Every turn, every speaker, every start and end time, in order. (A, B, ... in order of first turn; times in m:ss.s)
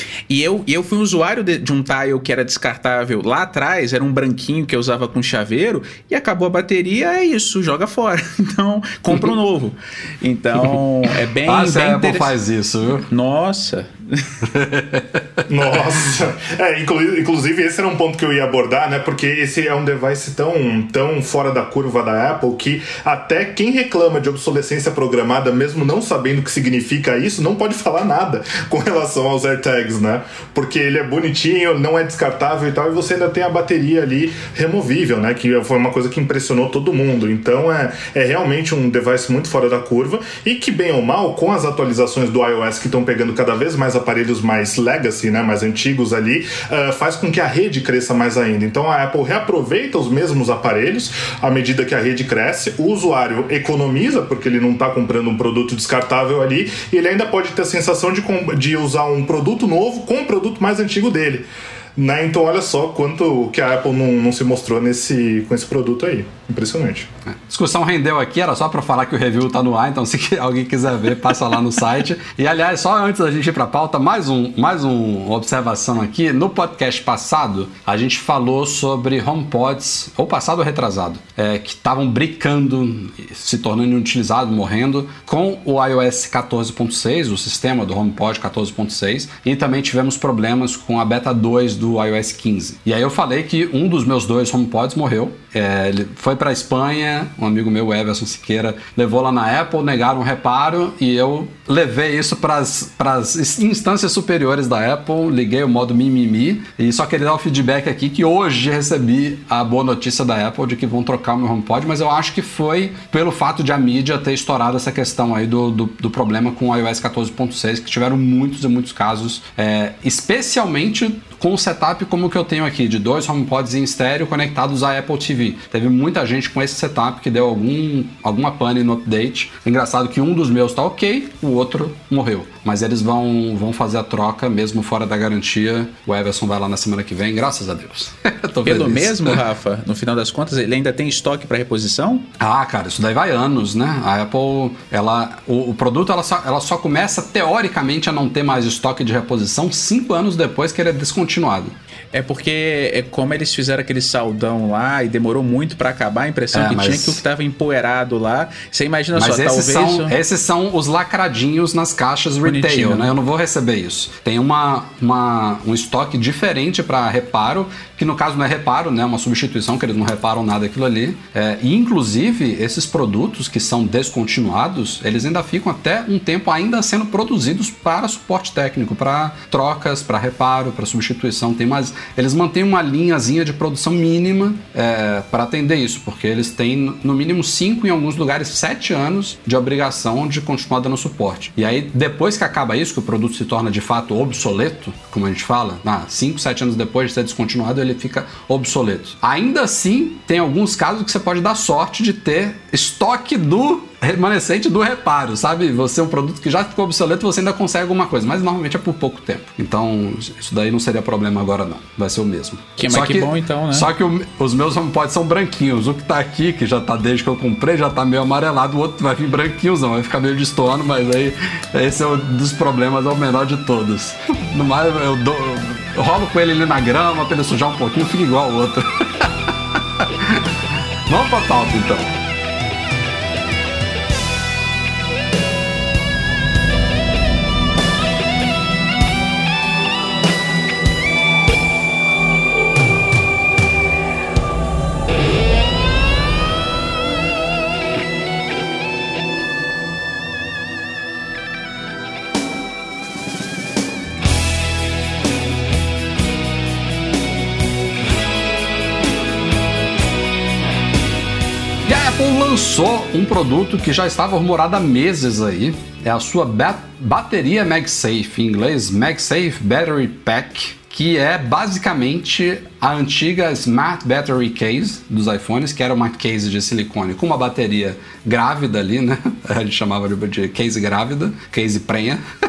0:00.3-0:12.3 A
0:11.4-0:13.0 B
0:13.1-0:14.3 A
0:14.4-0:15.5 B
0:15.5-1:01.4 C
1:02.0-1:07.1 C
1:07.3-2:19.4 B
2:18.6-2:22.3 A
2:22.4-2:31.7 B
2:32.1-2:40.2 A
2:36.5-2:37.2 B
2:39.1-3:52.2 B
2:42.4-2:43.1 A
3:32.8-3:33.9 A
4:21.8-4:42.2 B